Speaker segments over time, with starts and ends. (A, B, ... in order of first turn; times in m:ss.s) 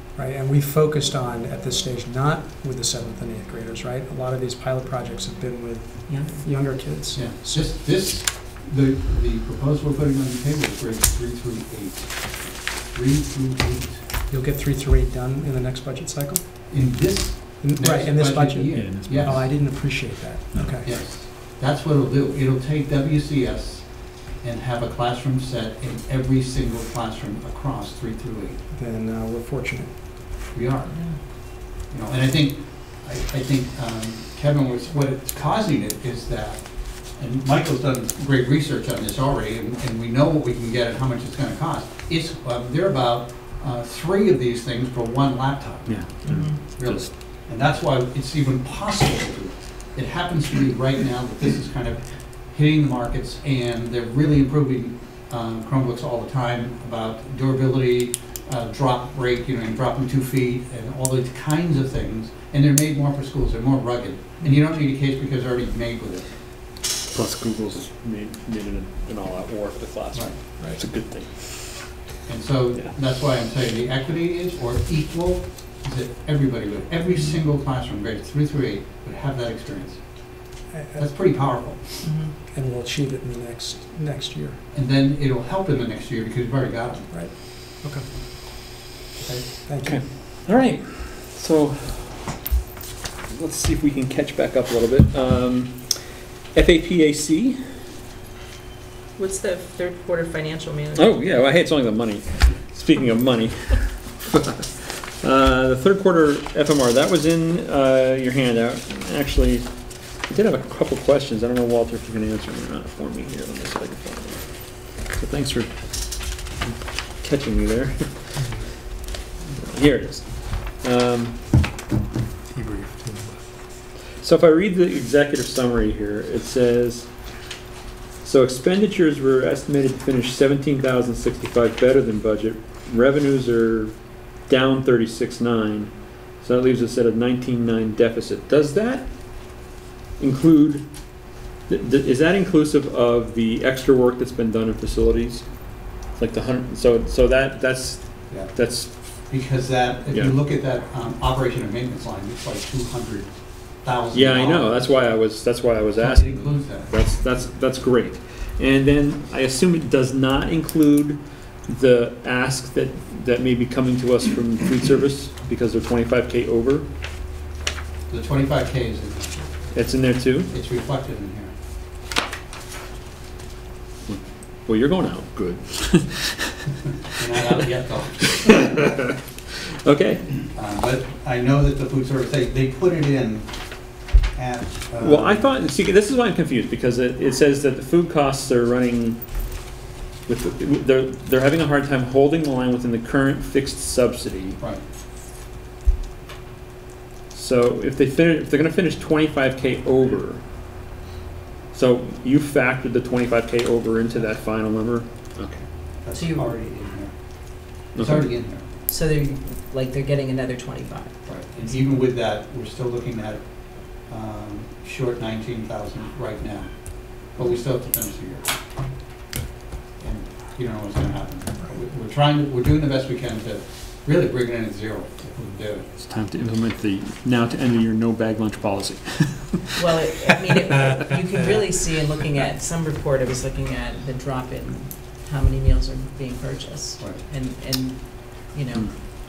0:00.2-0:07.7 A
0:06.1-0:06.4 B
0:07.1-0:14.0 C
0:14.3-0:17.0 A
0:16.7-0:19.4 C
0:17.6-0:21.0 A
0:18.7-0:19.4 D
0:20.8-0:28.6 C
0:28.7-0:30.0 A
0:30.5-1:06.3 C
0:30.9-0:31.2 B
0:45.9-0:47.1 D
0:46.2-0:46.6 B
1:07.1-1:11.8 D
1:12.2-1:20.1 C
1:20.7-1:21.3 A
1:21.0-1:22.1 C
1:22.0-1:22.3 B
1:22.5-1:24.6 A
1:24.7-1:27.1 C
1:27.1-1:28.1 A
1:29.2-1:29.5 C
1:29.7-1:30.0 A
1:29.8-1:32.3 D
1:33.3-1:36.0 D
1:36.5-1:37.6 D
1:39.2-1:41.3 B
1:40.9-1:49.7 D
1:50.2-1:54.5 D
1:55.0-1:56.4 D
1:57.2-1:58.4 D
1:58.4-1:58.7 A
1:59.5-2:01.4 D
2:02.5-2:03.4 A
2:04.2-2:07.1 D
2:08.2-2:13.9 D
2:14.5-2:19.1 D
2:20.2-2:20.9 D
2:21.7-2:25.5 D
2:26.1-2:28.9 D
2:28.3-2:35.2 C
2:34.1-2:46.9 D
2:36.0-2:36.9 C
2:48.1-2:49.4 C
2:49.7-2:50.5 D
2:50.5-2:51.5 C
2:54.1-2:56.6 D
2:57.1-2:58.6 C
2:57.4-2:57.6 D
2:58.2-2:59.1 D
2:59.8-3:00.4 D
3:00.5-3:03.5 C
3:04.3-3:05.6 C
3:05.0-3:09.2 D
3:10.3-3:14.6 D
3:17.3-3:20.4 D
3:21.7-3:25.6 D
3:26.0-3:28.7 C
3:26.1-3:26.6 B
3:27.9-3:28.3 D
3:28.9-3:31.2 B
3:31.2-3:38.5 C
3:40.0-3:45.9 C
3:45.9-3:49.8 D
3:49.8-3:58.9 B